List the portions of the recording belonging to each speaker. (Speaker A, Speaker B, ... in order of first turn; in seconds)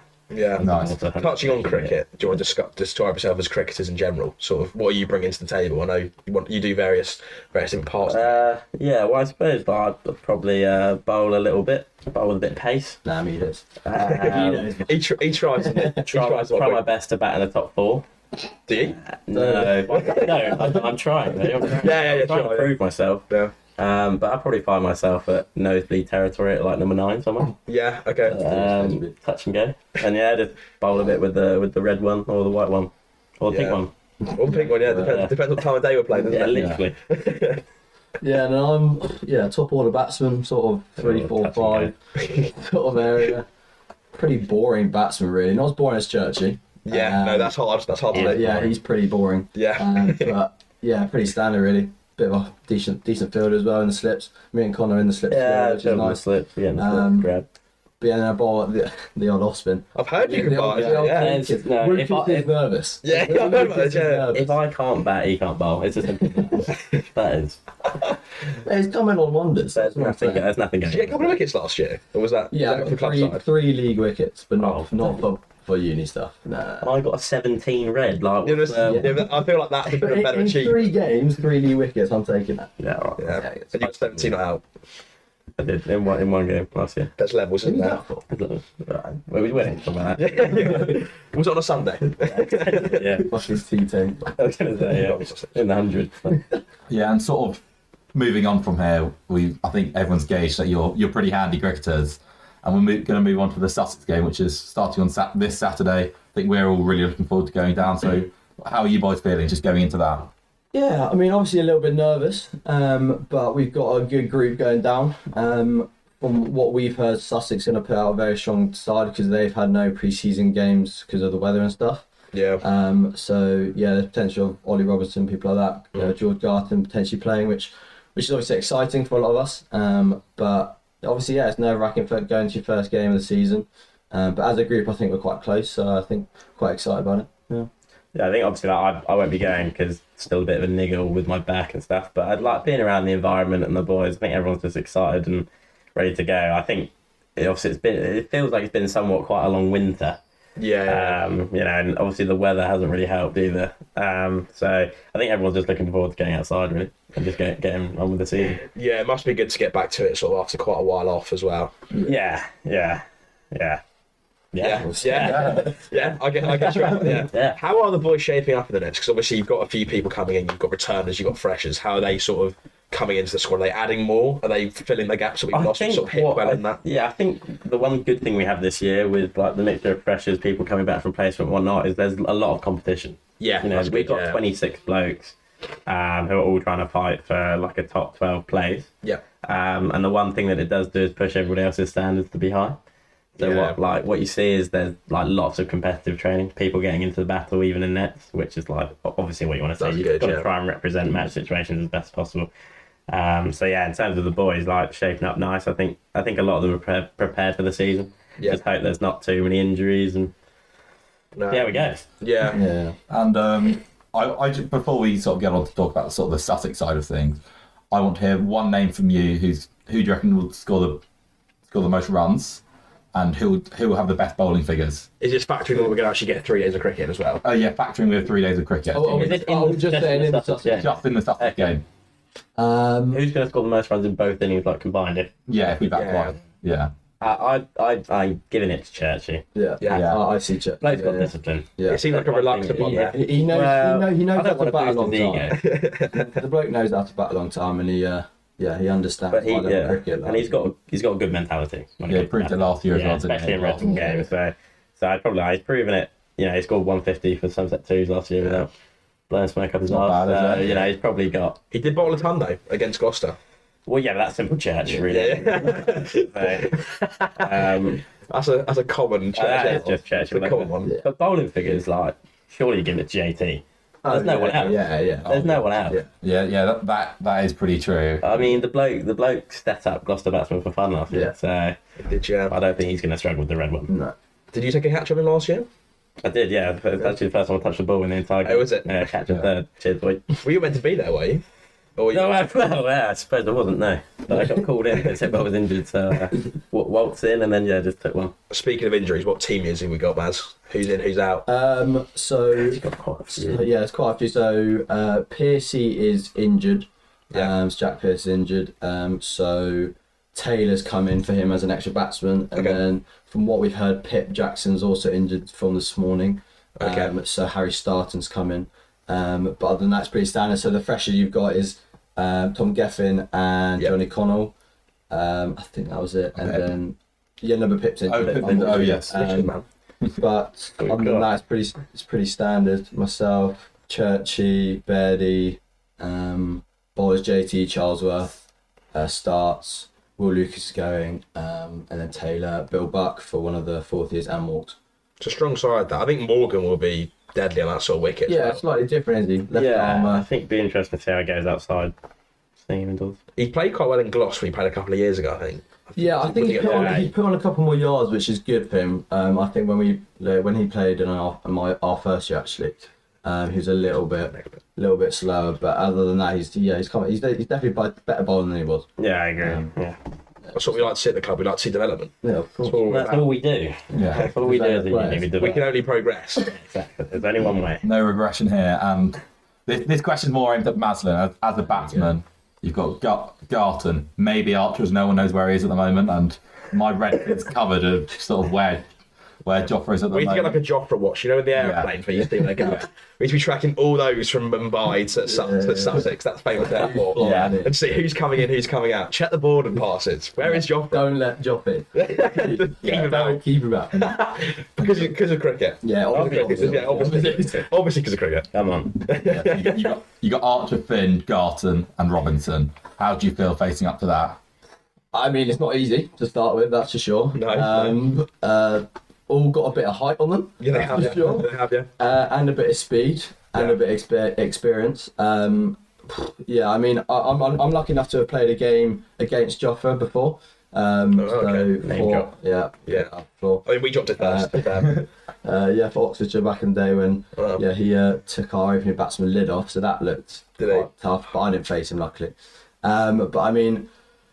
Speaker A: 0.3-8.4, 14.0-16.8, 18.7-19.0, 19.9-20.6, 21.6-22.7, 23.3-23.5, 27.7-28.4, 33.5-33.8, 34.3-37.6, 46.9-48.7, 49.5-50.4, 59.9-61.4, 63.0-64.3, 70.8-73.4, 78.4-80.9, 83.2-84.6, 87.2-88.0, 90.2-93.2, 94.8-95.6, 122.3-122.6, 150.6-151.2, 158.6-161.7, 164.6-176.8, 183.4-184.4, 193.4-193.8, 199.8-200.5, 211.3-212.6, 225.2-227.4, 235.9-236.3, 241.8-243.2, 245.5-246.3, 261.7-263.4, 265.1-267.5, 268.2-270.9, 282.0-282.5, 284.5-285.7, 288.4-289.0, 290.4-291.4, 292.0-292.3, 298.5-301.5, 312.5-312.8, 316.8-317.1, 328.3-329.6, 345.2-348.6, 353.4-357.1, 364.3-364.6, 370.5-373.3, 375.4-376.5, 390.1-401.1, 401.9-403.4, 403.9-408.5, 409.0-409.9, 417.3-418.0, 420.6-421.9, 431.1-431.7, 433.6-435.1, 437.3-437.6, 440.6-440.9
Speaker B: 0.6-1.9, 8.1-13.0, 13.8-14.7, 16.0-18.1, 19.0-23.2, 23.8-27.6, 28.3-33.9, 35.0-35.3, 36.3-36.9, 41.0-41.9, 48.1-48.7, 55.3-57.5, 60.7-62.5, 64.3-67.6, 69.7-71.4, 74.6-75.2, 76.8-79.1, 82.8-83.4, 85.6-87.1, 88.3-90.8, 92.3-93.3, 94.3-96.4, 138.1-150.2, 150.9-158.6, 162.0-163.8, 164.5-167.6, 175.5-188.9, 189.4-192.8, 193.3-202.5, 203.1-210.3, 211.5-212.1, 229.1-231.8, 233.1-235.3, 237.2-239.4, 240.8-245.6, 249.3-258.7, 259.3-261.6, 263.9-268.0, 269.3-276.0, 278.2-281.8, 282.5-283.9, 286.2-290.2, 292.1-298.3, 302.6-303.6, 330.8-331.3, 349.5-351.9, 352.6-353.2, 356.6-357.1, 369.0-370.0, 372.8-375.6, 376.4-377.8, 397.2-397.5, 406.1-407.4, 408.5-409.0, 431.8-432.3
Speaker C: 0.6-0.9, 36.5-36.8, 96.9-97.6, 98.1-110.3, 165.3-165.6, 213.1-221.0, 221.7-222.6, 223.1-225.1, 227.4-229.5, 230.8-231.8, 235.5-236.9, 239.9-240.2, 252.1-254.0, 259.9-260.7, 276.2-278.2, 326.4-326.6, 328.1-329.1, 373.9-374.2, 377.8-388.9, 389.4-390.6, 391.5-391.9, 397.2-397.5, 409.4-414.4
Speaker D: 13.0-15.0, 15.6-16.0, 19.3-20.8, 28.3-29.1, 34.2-35.2, 38.2-43.5, 44.1-47.5, 48.1-56.2, 56.8-57.3, 58.0-64.6, 66.0-66.7, 68.5-70.5, 72.5-76.9, 78.8-79.3, 79.9-82.7, 83.3-84.3, 87.6-88.2, 93.2-94.3, 110.7-122.0, 122.6-137.7, 164.8-165.8, 212.5-213.0, 228.9-230.9, 232.6-233.2, 239.5-242.0, 242.8-250.6, 253.8-254.2, 274.0-276.1, 283.9-284.1, 301.4-324.5, 325.1-329.5, 330.2-338.3, 338.9-344.8, 348.3-350.2, 356.0-368.9, 369.4-369.7, 372.2-372.8, 373.9-375.3, 395.3-397.7, 400.4-404.2, 405.8-407.7, 415.1-443.9